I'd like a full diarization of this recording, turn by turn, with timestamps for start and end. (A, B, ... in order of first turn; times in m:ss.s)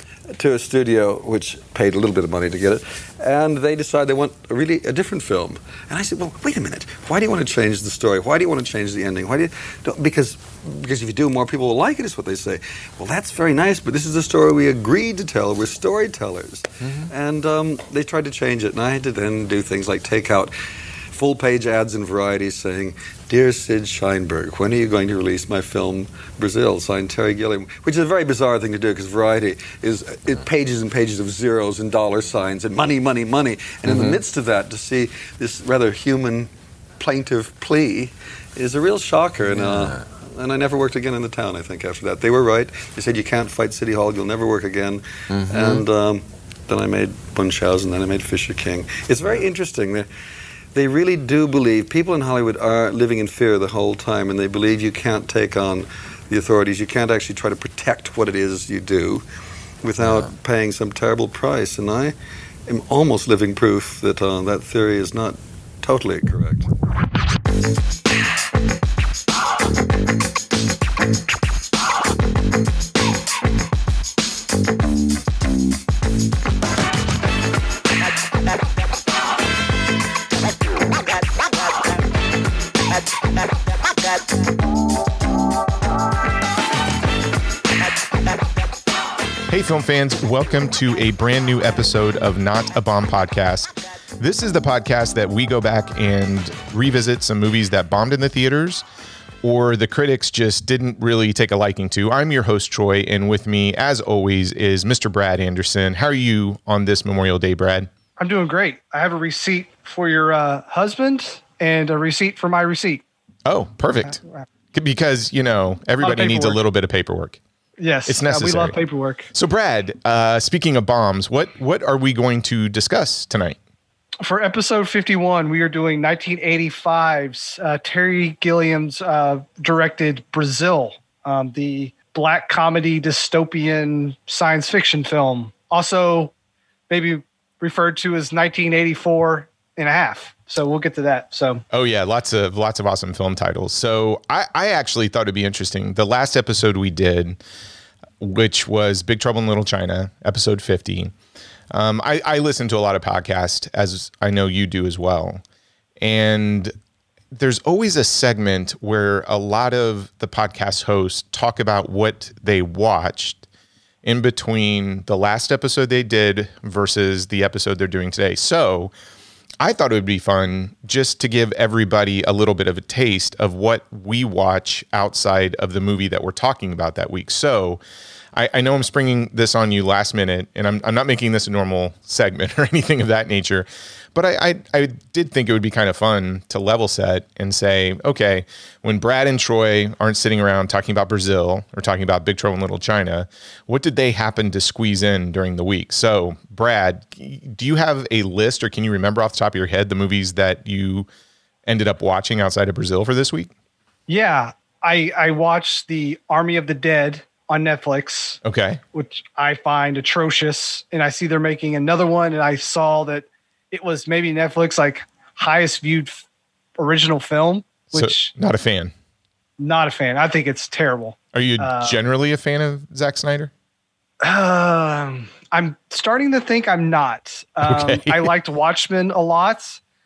0:00.3-0:20.5 A
0:21.1-0:50.1 A
0:50.7-0:59.2 A
0:59.8-1:02.1 A
1:02.7-1:06.7 A
1:29.5-1:38.8 B
1:39.4-1:47.9 B
1:48.2-1:53.0 C
1:53.4-1:54.2 B
1:54.7-1:57.4 B
1:56.0-1:56.6 C
1:57.8-1:59.3 C
1:58.0-1:58.8 B
1:59.3-2:03.6 B
2:04.2-2:16.3 C
2:16.9-2:21.6 C
2:21.7-2:27.4 B
2:28.2-2:31.1 B
2:31.7-2:35.4 B
2:36.0-2:36.7 B
2:37.3-2:43.4 B
2:44.0-2:48.9 B
2:49.6-2:57.8 B
2:58.3-3:21.1 B
3:21.6-3:23.5 B
3:24.1-3:28.4 C
3:28.4-3:28.8 B
3:28.9-3:36.2 C
3:36.8-3:38.3 C
3:37.9-3:38.9 B
3:39.6-3:42.0 C
3:41.3-3:43.5 B
3:44.2-3:49.8 C
3:47.6-3:48.3 B